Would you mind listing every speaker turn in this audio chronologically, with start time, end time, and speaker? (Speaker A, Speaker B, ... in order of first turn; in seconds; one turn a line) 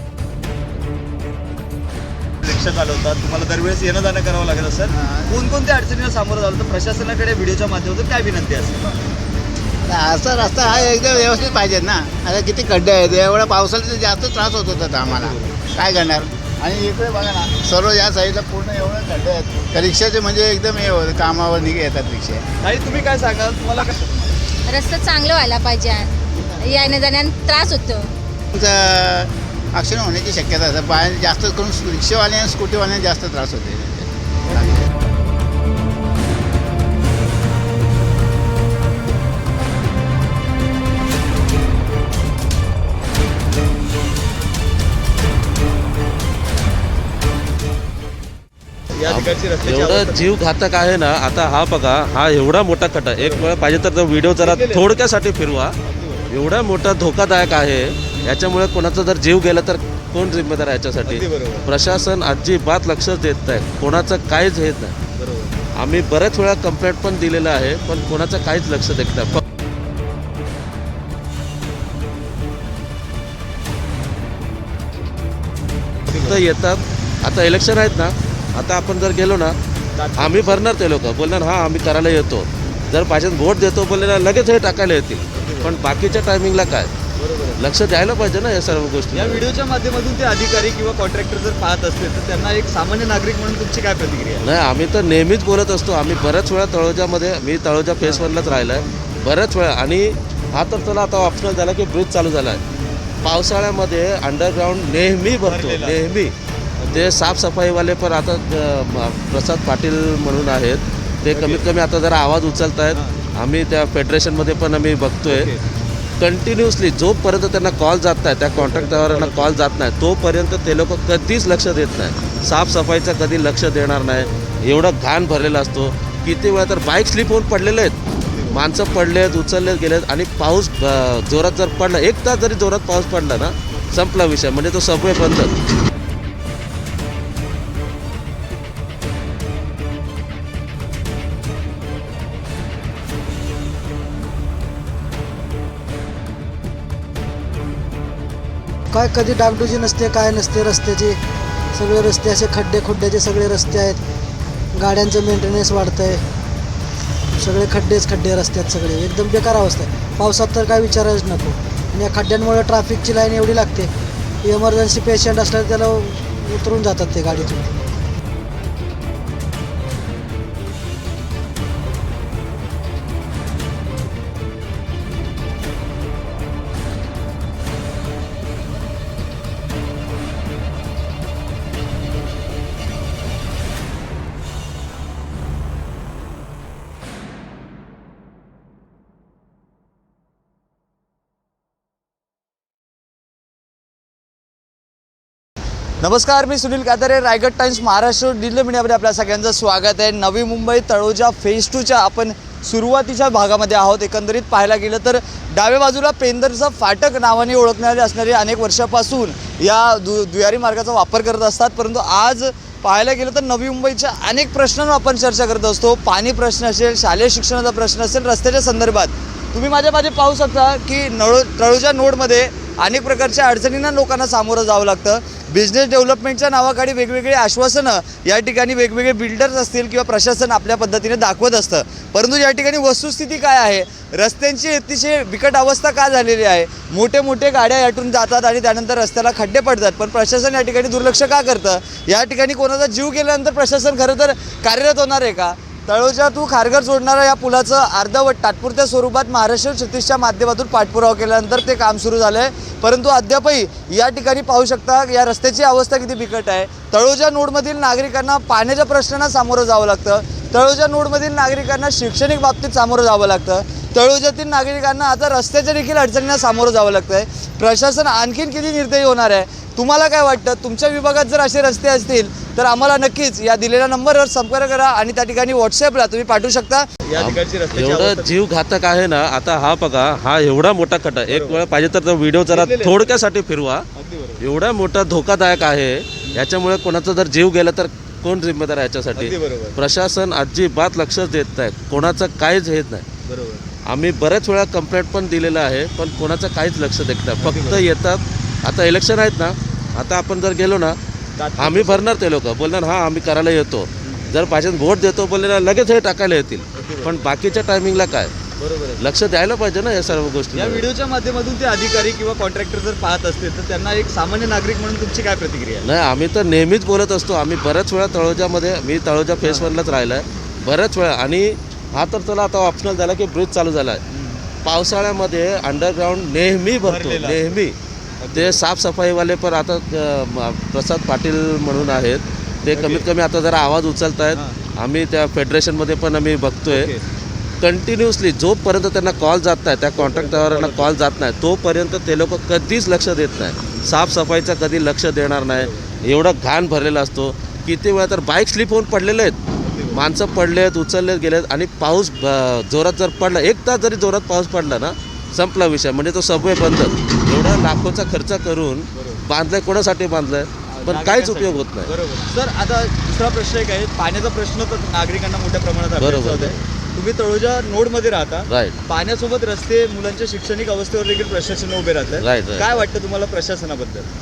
Speaker A: 2.4-8.9
Speaker B: 4.9-5.4
Speaker B: 9.8-22.4
Speaker A: 15.0-15.6
Speaker A: 22.6-24.4
Speaker C: 24.7-28.1
Speaker B: 28.5-34.9
Speaker A: 49.0-50.3
Speaker D: 49.0-55.8
Speaker A: 53.2-53.5
Speaker A: 54.4-54.9
Speaker A: 55.8-56.3
Speaker D: 56.3-65.0
Speaker A: 61.0-61.7
Speaker A: 65.2-65.6
Speaker D: 65.7-69.4
Speaker A: 76.1-76.5
Speaker D: 76.3-79.5
Speaker A: 80.0-80.7
Speaker D: 80.1-86.9
Speaker A: 85.3-85.8
Speaker A: 87.2-87.6
Speaker D: 87.6-89.5
Speaker A: 89.1-94.5
Speaker D: 94.4-102.6
Speaker D: 103.2-106.3
Speaker A: 105.3-106.2
Speaker A: 106.8-107.3
Speaker D: 106.9-115.5
Speaker A: 111.3-111.7
Speaker A: 115.2-115.6
Speaker D: 116.2-128.0
Speaker A: 118.5-119.6
Speaker A: 128.3-128.6
Speaker D: 128.5-135.5
Speaker E: 148.9-151.2
Speaker E: 151.7-154.0
Speaker E: 154.7-156.2
Speaker E: 157.4-163.9
Speaker E: 164.4-167.7
Speaker A: 196.0-278.4
Speaker D: 277.1-283.9
Speaker A: 281.3-281.6
Speaker A: 282.5-283.1
Speaker A: 283.9-284.4
Speaker D: 284.4-293.1
Speaker A: 289.1-289.8
Speaker A: 291.9-292.2
Speaker A: 293.3-293.6
Speaker D: 293.9-301.0
Speaker A: 297.4-297.9
Speaker A: 301.4-302.1
Speaker D: 301.6-308.3
Speaker A: 306.8-307.2
Speaker A: 308.6-309.0
Speaker D: 309.0-310.9
Speaker A: 310.5-315.9
Speaker D: 315.8-324.0
Speaker A: 319.4-319.7
Speaker A: 324.1-324.4
Speaker D: 324.6-327.8
Speaker A: 326.8-327.6
Speaker A: 328.2-328.6
Speaker D: 328.3-336.9
Speaker A: 332.7-333.1
Speaker A: 336.7-337.0
Speaker D: 337.6-349.4
Speaker A: 339.9-341.0
Speaker A: 345.5-345.8
Speaker A: 349.6-350.0
Speaker D: 349.9-361.9
Speaker A: 358.9-359.2
Speaker A: 360.7-374.1
Speaker D: 365.9-366.6
Speaker D: 368.5-368.8
Speaker D: 372.1-372.8